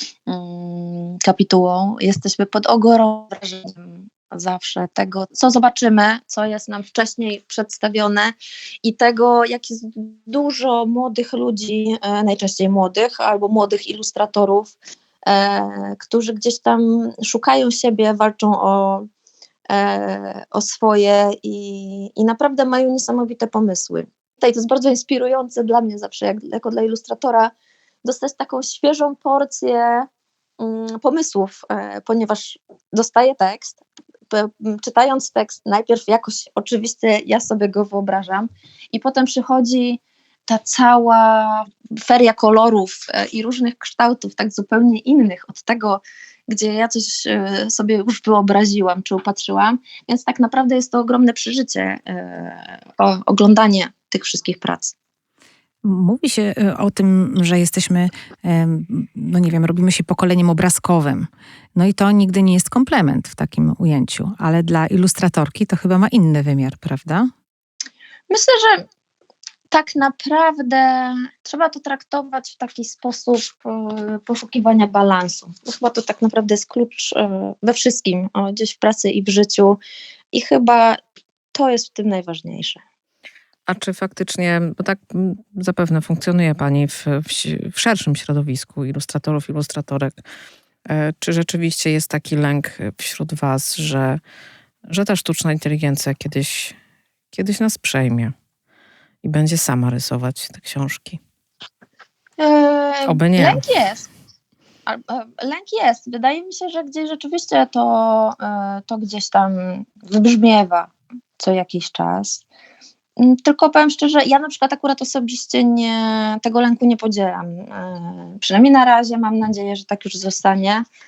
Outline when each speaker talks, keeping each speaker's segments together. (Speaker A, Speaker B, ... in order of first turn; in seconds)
Speaker A: 0.3-19.0, 19.7-27.5, 28.0-30.1, 30.6-54.9, 68.3-68.9, 69.7-79.8, 80.3-81.0, 81.5-82.8, 102.4-104.1, 104.9-112.4, 113.2-120.8
Speaker B: 55.8-67.3
Speaker C: 83.7-90.2, 90.9-94.2, 94.9-96.8, 97.3-98.3, 99.2-101.2, 103.1-103.6